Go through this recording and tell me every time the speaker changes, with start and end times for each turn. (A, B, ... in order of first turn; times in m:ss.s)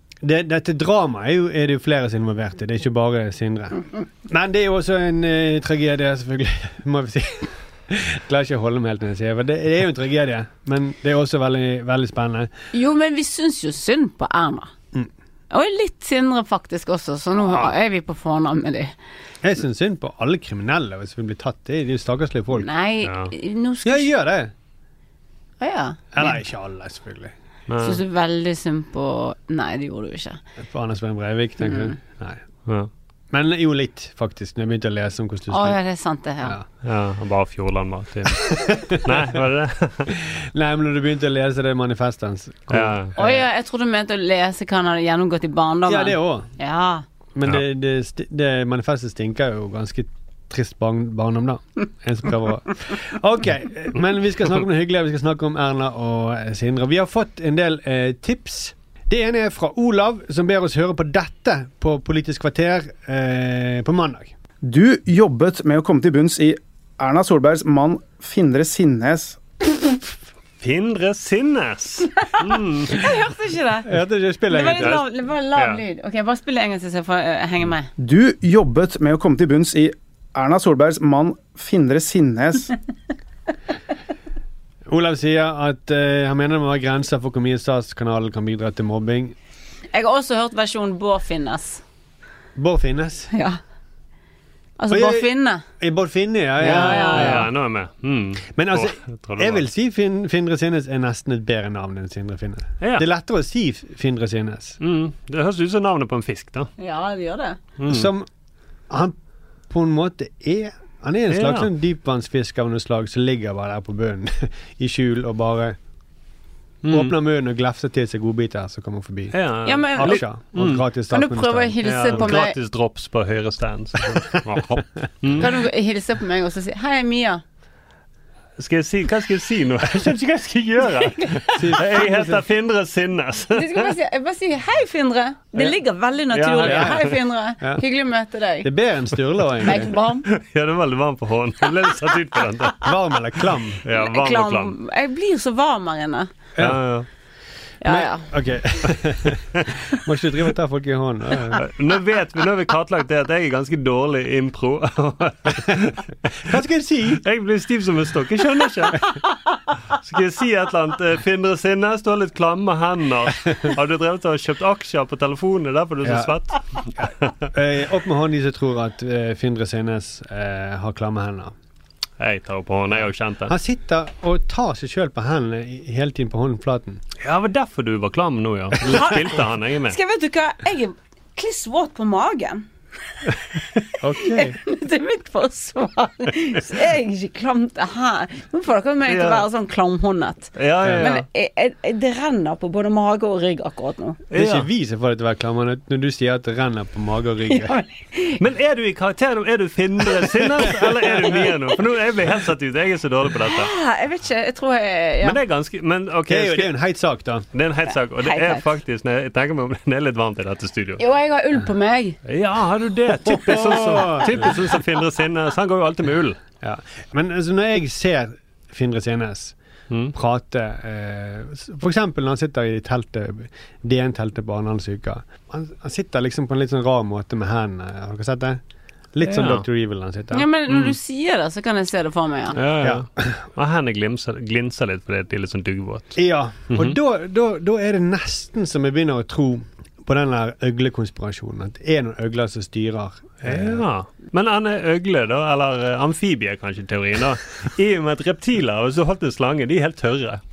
0:00.2-0:12.5 A
0:12.7-0:14.7 B
0:15.5-0:18.9 B
0:19.4-0:22.7 A
0:22.6-0:24.1 B
0:23.0-0:23.3 C
0:23.8-0:24.5 A
0:25.6-0:26.0 B
0:26.1-0:27.3 A
0:27.7-0:28.0 C
0:27.8-0:30.4 B
0:30.6-0:32.4 A
0:31.6-0:31.9 B
0:33.3-0:35.8 A
0:35.5-0:36.6 B
0:36.8-0:40.1 C
0:38.2-0:39.3 A
0:40.1-0:43.4 A
0:42.7-0:43.1 C
0:43.2-0:47.0 B
0:45.9-0:46.5 A
0:47.3-1:04.3 A
1:04.6-1:09.4 D
1:10.6-1:13.1 C
1:12.9-1:13.9 B
1:13.8-1:15.0 A
1:14.5-1:17.9 B
1:14.8-1:15.8 C
1:18.0-1:22.7 D
1:24.9-1:29.3 A
1:29.9-1:31.8 B
1:32.6-1:33.3 A
1:33.3-1:33.6 B
1:34.8-1:35.6 B
1:34.9-1:37.5 A
1:36.6-1:37.4 B
1:36.6-1:39.6 C
1:38.6-1:44.8 A
1:42.8-1:43.0 C
1:44.8-1:46.7 C
1:46.8-1:47.6 B
1:47.8-1:48.1 C
1:47.8-1:48.3 A
1:48.9-1:49.2 A
1:49.7-1:55.8 A
1:51.3-1:51.7 C
1:56.8-1:57.1 C
1:56.9-2:02.3 A
1:59.3-2:00.9 C
1:59.6-2:00.2 B
2:01.1-2:02.6 B
2:01.8-2:05.5 C
2:04.1-2:04.4 A
2:05.4-2:07.4 B
2:08.6-2:13.9 C
2:11.5-2:12.4 A
2:13.5-2:18.7 B
2:16.3-2:17.2 C
2:16.6-2:17.1 A
2:18.6-2:19.9 A
2:19.6-2:20.3 B
2:20.3-2:22.9 C
2:22.8-2:23.8 A
2:23.8-2:24.7 C
2:23.9-2:26.3 B
2:26.6-2:26.8 A
2:26.6-2:27.1 C
2:27.8-2:28.3 B
2:27.8-2:31.6 A
2:31.6-2:36.0 C
2:36.4-2:37.2 A
2:37.2-2:39.1 C
2:39.9-2:46.6 C
2:46.0-2:46.3 A
2:47.5-2:51.5 A
2:52.2-2:53.5 C
2:53.5-2:57.0 A
2:57.2-3:00.0 C
2:58.8-3:02.7 B
3:03.6-3:14.2 B
3:04.0-3:04.6 A
3:09.1-3:09.4 C
3:10.6-3:11.2 C
3:10.8-3:11.2 A
3:14.3-3:14.7 C
3:14.3-3:17.8 A
3:17.5-3:18.4 B
3:18.4-3:23.7 C
3:20.4-3:21.4 A
3:23.4-3:25.4 B
3:25.2-3:26.7 C
3:26.3-3:27.5 A
3:27.5-3:31.0 C
3:28.2-3:28.6 B
3:31.0-3:32.2 B
3:32.2-3:36.4 C
3:33.2-3:34.6 A
3:36.6-3:39.5 A
3:40.1-3:48.6 A
3:49.1-3:50.5 A
3:49.2-3:49.6 C
3:50.3-3:52.6 B
3:50.7-3:50.9 C
3:52.5-3:57.0 C
3:52.8-3:53.4 A
3:56.2-4:03.8 A
4:03.4-4:10.4 C